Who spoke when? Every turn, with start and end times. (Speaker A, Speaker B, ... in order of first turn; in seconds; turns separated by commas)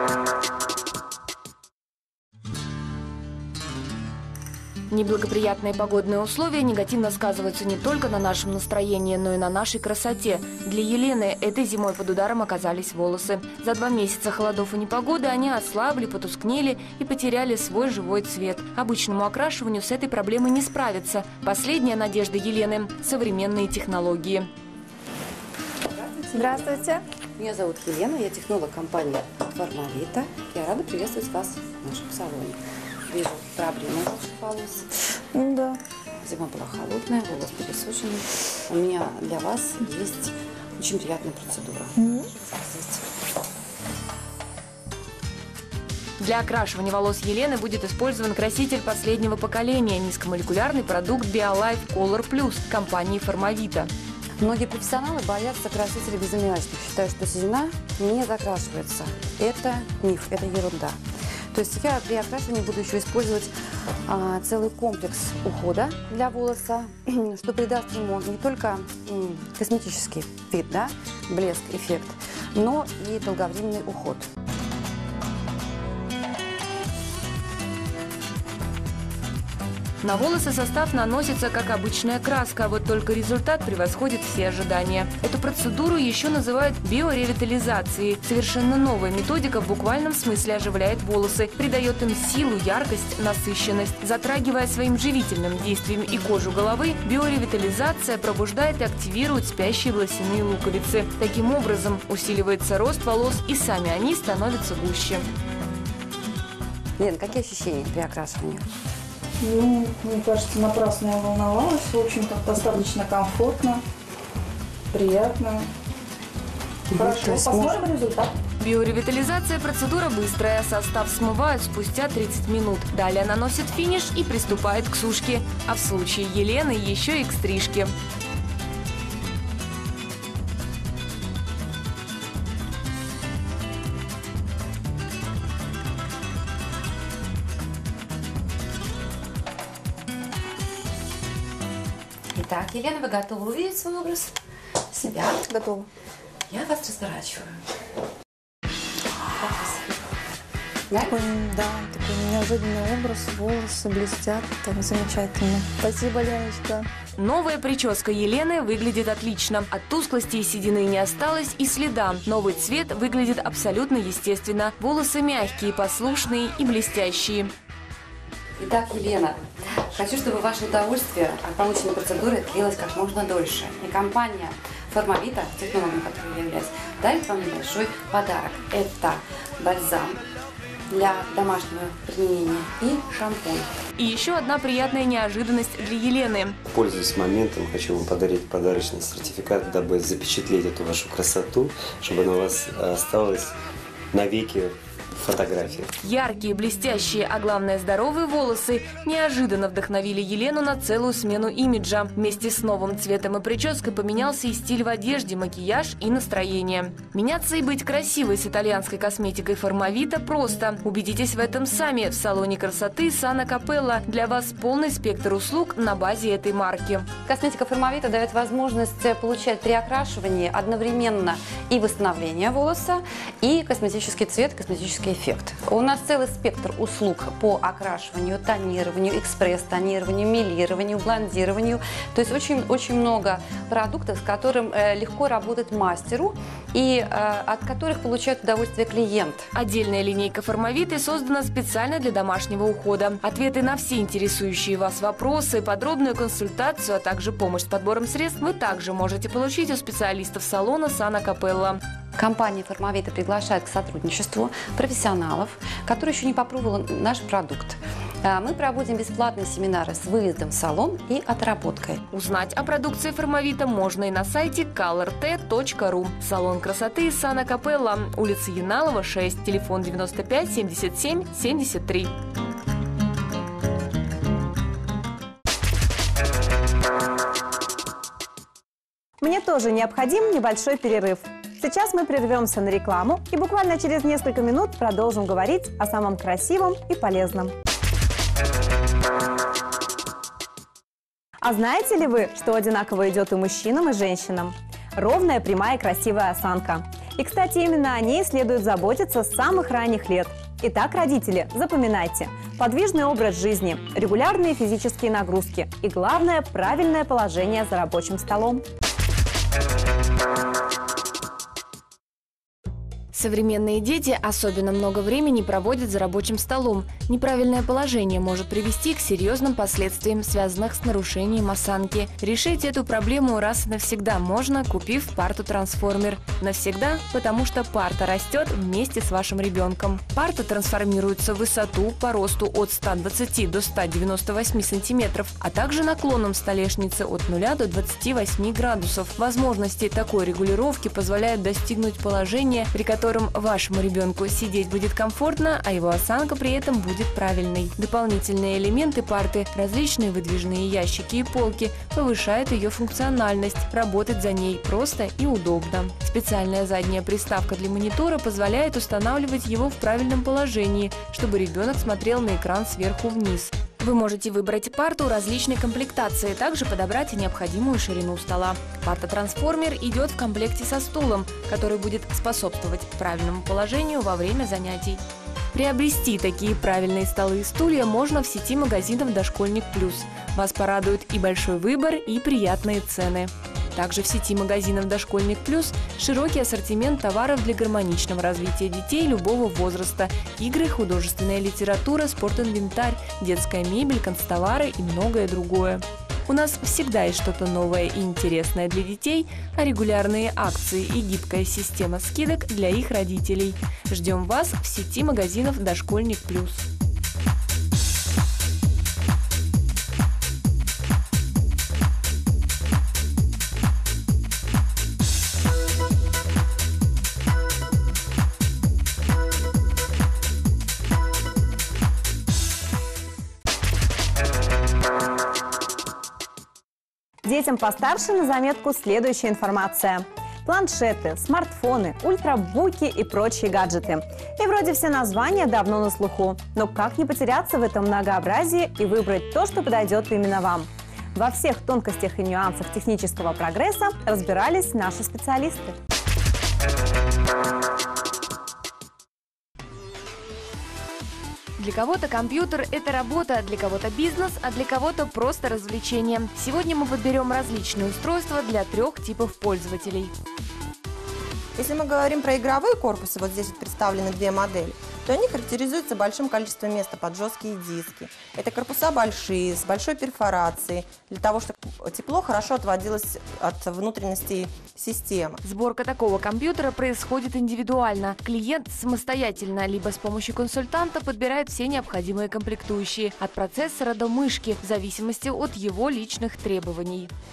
Speaker A: 4.9-24.5, Speaker B: 25.9-32.6, Speaker C: 26.4-27.0, Speaker B: 33.1-34.9, Speaker C: 35.3-35.8, Speaker B: 36.2-43.1, Speaker C: 42.0-42.3, Speaker A: 46.2-53.9, Speaker B: 54.4-61.0, Speaker B: 61.5-63.5, Speaker B: 64.1-74.3, Speaker A: 80.0-105.3, Speaker B: 107.0-108.7, Speaker D: 109.4-113.8, Speaker D: 114.9-115.7, Speaker B: 116.9-117.8, Speaker D: 116.9-118.3, Speaker A: 118.6-127.9, Speaker B: 142.3-144.3, Speaker C: 144.9-145.9, Speaker B: 145.1-145.4, Speaker B: 146.5-147.6, Speaker B: 149.3-150.0, Speaker B: 150.9-151.2, Speaker C: 150.9-156.9, Speaker A: 157.2-167.5, Speaker B: 168.6-180.2, Speaker B: 180.9-183.7, Speaker A: 184.0-186.6, Speaker E: 186.7-193.5, Speaker E: 194.1-195.9, Speaker A: 196.0-217.1, Speaker B: 217.2-239.4, Speaker A: 239.5-251.8, Speaker B: 252.2-262.0, Speaker A: 262.1-272.1, Speaker F: 279.2-287.5, Speaker F: 291.4-308.6, Speaker A: 313.1-375.0, Speaker A: 375.5-406.7, Speaker F: 427.2-445.8, Speaker A: 451.6-460.1, Speaker G: 461.6-475.4, Speaker A: 475.4-487.1